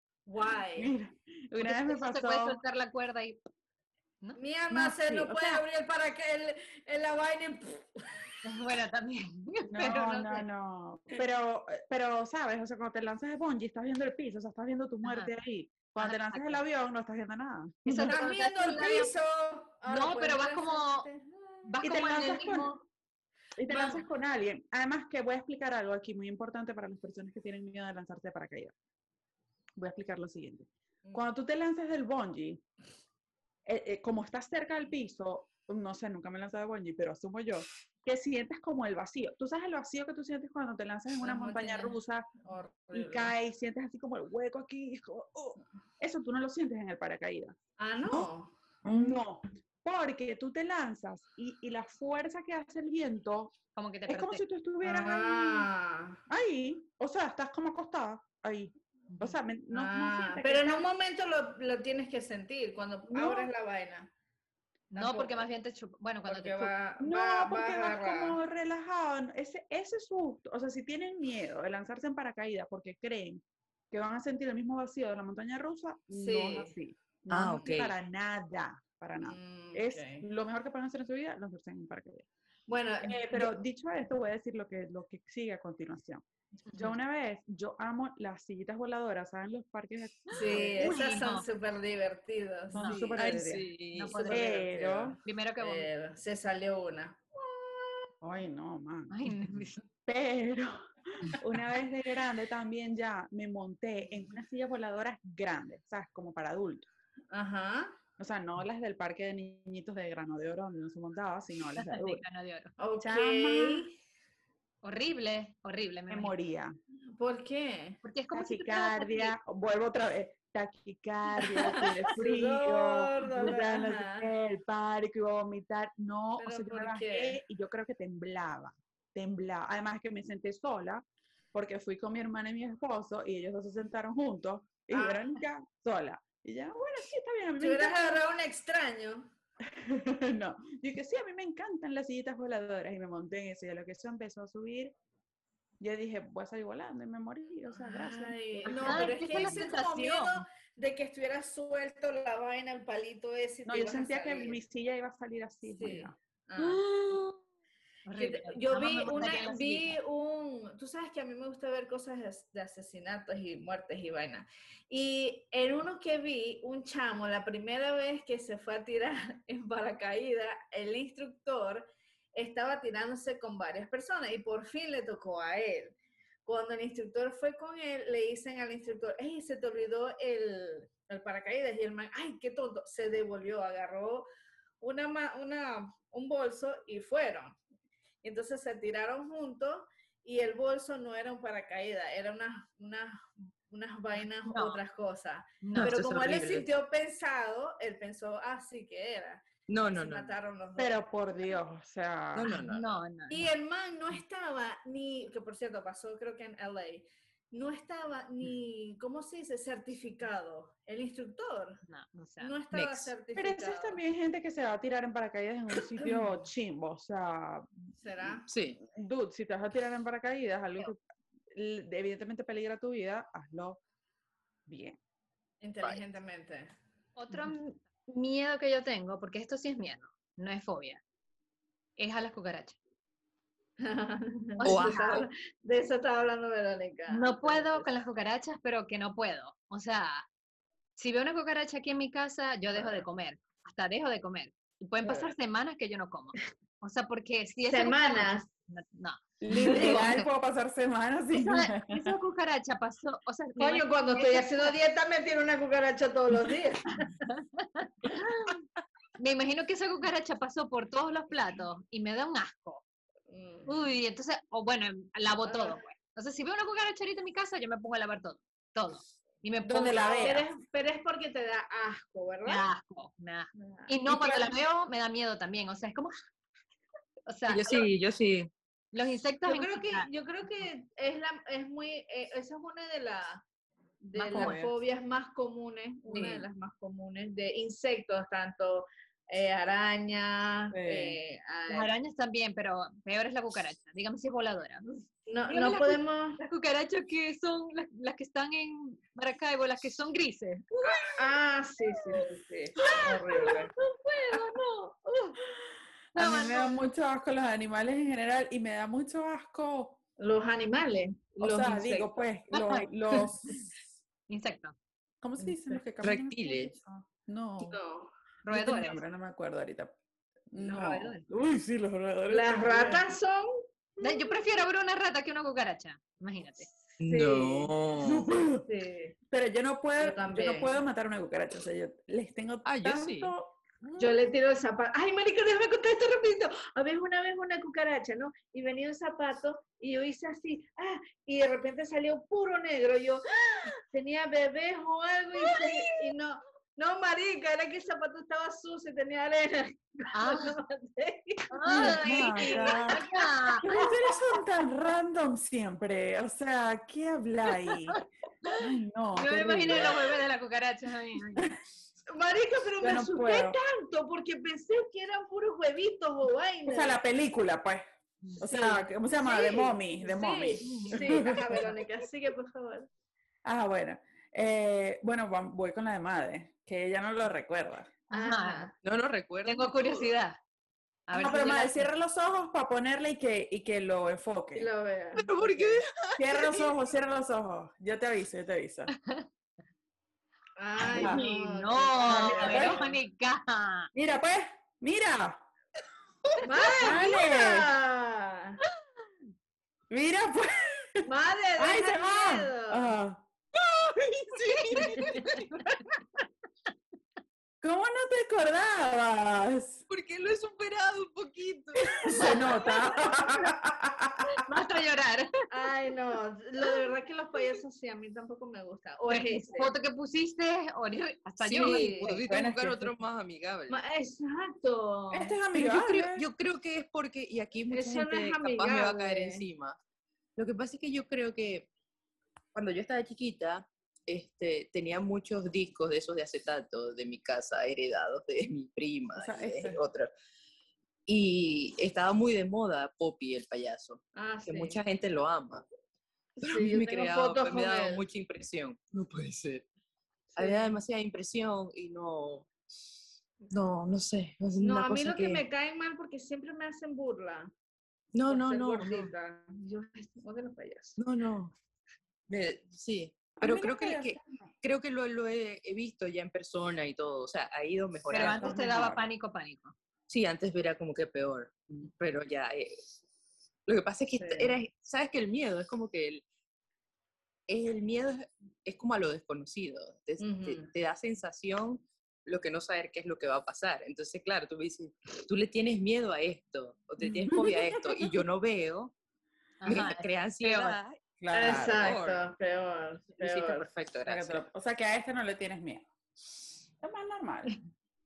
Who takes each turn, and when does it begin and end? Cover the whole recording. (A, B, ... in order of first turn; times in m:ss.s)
0:00.3-0:00.9 A
0:00.8-0:02.6 B
0:01.6-0:03.4 C
0:04.4-0:08.4 A
0:04.7-0:05.6 B
0:08.4-0:10.5 C
0:09.7-0:18.3 B
0:15.0-0:15.3 C
0:16.0-0:16.6 C
0:17.9-0:19.1 C
0:18.0-0:21.8 A
0:19.9-0:21.1 C
0:21.6-0:22.8 C
0:21.8-0:22.7 B
0:23.6-0:28.7 B
0:23.7-0:24.0 C
0:29.8-0:32.6 B
0:33.7-0:42.3 B
0:41.2-0:43.3 A
0:42.9-0:47.6 B
0:47.8-0:48.9 A
0:48.8-0:53.6 B
0:53.8-0:54.4 C
0:54.1-0:55.7 B
0:54.8-0:56.2 A
0:56.3-1:00.8 B
0:59.1-0:59.4 C
0:59.7-1:04.1 A
1:03.1-1:03.5 B
1:04.9-1:06.7 C
1:05.0-1:05.5 A
1:06.3-1:08.4 A
1:07.0-1:22.3 B
1:16.1-1:16.7 A
1:17.3-1:17.9 D
1:17.5-1:17.8 A
1:19.2-1:20.3 A
1:22.7-1:23.5 A
1:23.0-1:31.1 B
1:30.3-1:38.1 A
1:30.4-1:31.5 C
1:32.7-1:33.7 B
1:32.7-1:33.1 C
1:33.2-1:34.2 D
1:34.0-1:34.5 C
1:34.3-1:35.2 B
1:35.2-1:35.9 C
1:38.2-1:39.1 B
1:39.1-1:39.8 C
1:40.0-1:46.9 B
1:47.3-1:48.0 A
1:48.2-1:52.2 B
1:51.8-1:52.7 C
1:52.8-1:53.9 A
1:53.0-1:53.9 B
1:54.8-1:56.3 C
1:56.1-1:56.8 B
1:57.2-1:58.0 A
1:58.0-1:59.4 C
1:58.3-2:18.2 B
2:01.5-2:04.3 A
2:06.4-2:07.4 A
2:14.9-2:15.4 A
2:17.6-2:19.3 A
2:19.7-2:25.0 B
2:25.8-2:29.7 B
2:27.7-2:34.6 A
2:28.7-2:30.4 C
2:33.6-2:36.2 B
2:35.8-2:36.8 A
2:36.6-2:37.4 C
2:38.1-2:40.0 C
2:38.2-3:04.3 A
3:04.8-3:07.6 A
3:08.2-3:21.0 A
3:14.4-3:14.8 C
3:15.6-3:15.9 C
3:15.8-3:16.7 D
3:19.7-3:20.3 D
3:20.8-3:22.6 B
3:22.3-3:22.9 D
3:22.5-3:23.5 C
3:23.3-3:31.8 A
3:31.9-3:32.6 C
3:32.4-3:34.0 A
3:32.7-3:33.1 D
3:33.4-3:43.8 B
3:38.0-3:38.5 A
3:38.5-3:38.8 D
3:44.7-3:45.0 B
3:45.6-3:46.7 A
3:47.2-3:51.0 C
3:52.0-3:52.8 C
3:53.8-3:57.9 A
3:54.6-3:55.3 C
3:54.6-3:55.3 D
3:57.1-4:00.3 C
4:01.0-4:10.2 C
4:02.7-4:03.0 A
4:05.0-4:05.3 A
4:07.7-4:08.5 A
4:09.4-4:12.1 B
4:09.6-4:10.1 A
4:11.3-4:14.8 C
4:13.6-4:17.2 A
4:17.3-4:18.6 C
4:19.2-4:22.8 C
4:23.3-4:23.7 A
4:23.7-4:30.3 C
4:25.4-4:25.8 A
4:29.6-4:30.5 B
4:30.0-4:32.7 A
4:32.4-4:36.2 C
4:33.6-4:34.0 A
4:34.1-4:34.5 B
4:37.3-4:37.7 C
4:37.5-4:38.5 D
4:38.9-4:40.1 C
4:39.5-4:43.4 A
4:44.0-4:51.9 A
4:44.1-4:44.7 C
4:46.1-4:46.4 C
4:50.7-4:51.2 B
4:51.7-5:01.2 C
4:55.3-4:56.4 A
5:00.9-5:04.6 A
5:02.8-5:03.5 C
5:03.0-5:03.7 B
5:04.3-5:05.2 C
5:06.1-5:10.0 B
5:06.2-5:06.8 C
5:10.2-5:12.1 A
5:11.4-5:13.8 B
5:12.5-5:12.9 C
5:14.3-5:14.8 C
5:15.2-5:17.8 B
5:15.4-5:15.8 A
5:16.0-5:16.7 D
5:17.6-5:18.1 A
5:18.4-5:19.0 C
5:18.5-5:20.0 B
5:20.5-5:23.2 B
5:20.6-5:21.2 C
5:22.3-5:24.4 A
5:24.0-5:26.7 C
5:27.0-5:28.3 D
5:27.1-5:27.7 A
5:28.0-5:28.7 B
5:28.6-5:29.2 A
5:29.3-5:34.3 B
5:30.0-5:30.7 A
5:32.6-5:33.3 D
5:34.0-5:54.1 A
5:45.4-5:45.9 C
5:50.1-5:50.6 C
5:51.5-5:53.9 C
5:51.7-5:53.0 B
5:53.6-5:58.0 B
5:58.6-6:00.0 B
5:59.2-6:01.5 C
5:59.7-6:00.0 A
6:02.1-6:07.0 A
6:02.8-6:03.6 B
6:06.7-6:07.8 B
6:08.4-6:11.7 B
6:08.4-6:12.9 A
6:10.6-6:11.7 C
6:13.4-6:18.0 B
6:18.1-6:18.7 C
6:18.1-6:18.7 A
6:18.8-6:20.2 D
6:19.4-6:20.4 C
6:21.1-6:21.9 C
6:21.1-6:24.7 B
6:24.6-6:25.8 A
6:25.2-6:26.7 D
6:26.2-6:28.9 B
6:28.9-6:29.3 C
6:30.6-6:32.9 A
6:30.8-6:33.9 C
6:30.9-6:31.2 B
6:32.0-6:32.8 B
6:33.9-6:35.4 B
6:36.4-6:38.6 A
6:36.8-6:37.7 B
6:39.9-6:41.1 B
6:41.0-6:43.0 A
6:41.6-6:43.3 B
6:44.0-6:44.9 B
6:44.4-6:45.5 D
6:44.5-6:45.7 C
6:47.6-6:49.8 B
6:49.9-6:52.5 D
6:51.8-6:54.5 B
6:52.1-6:52.4 A
6:52.2-6:52.7 C
6:54.4-6:55.3 C
6:55.5-6:59.7 A
6:59.1-7:02.0 C
7:01.4-7:03.8 D
7:01.6-7:02.2 A
7:02.3-7:02.9 B
7:03.7-7:05.4 A
7:05.1-7:06.3 B
7:05.5-7:09.8 D
7:07.7-7:09.4 A
7:10.4-7:11.7 D
7:12.5-7:20.1 D
7:19.2-7:19.8 B
7:21.1-7:25.7 D
7:24.2-7:24.8 A
7:26.4-7:28.0 A
7:26.4-7:29.6 D
7:30.4-7:30.8 A
7:30.4-7:32.5 D
7:33.5-7:35.4 D
7:34.6-7:37.5 A
7:38.2-7:39.1 D
7:38.3-7:41.0 A
7:41.0-7:41.5 D
7:42.3-7:48.5 D
7:43.4-7:44.4 B
7:48.1-7:49.7 C
7:48.2-7:49.1 B
7:50.1-7:52.9 D
7:53.7-7:56.2 D
7:54.2-7:54.6 A
7:57.5-8:08.9 D
8:00.2-8:00.7 A
8:07.0-8:07.6 B
8:09.6-8:10.8 C
8:09.6-8:12.3 D
8:11.2-8:12.0 B
8:11.3-8:13.7 A
8:13.2-8:14.4 D
8:14.1-8:15.9 B
8:16.8-8:17.6 B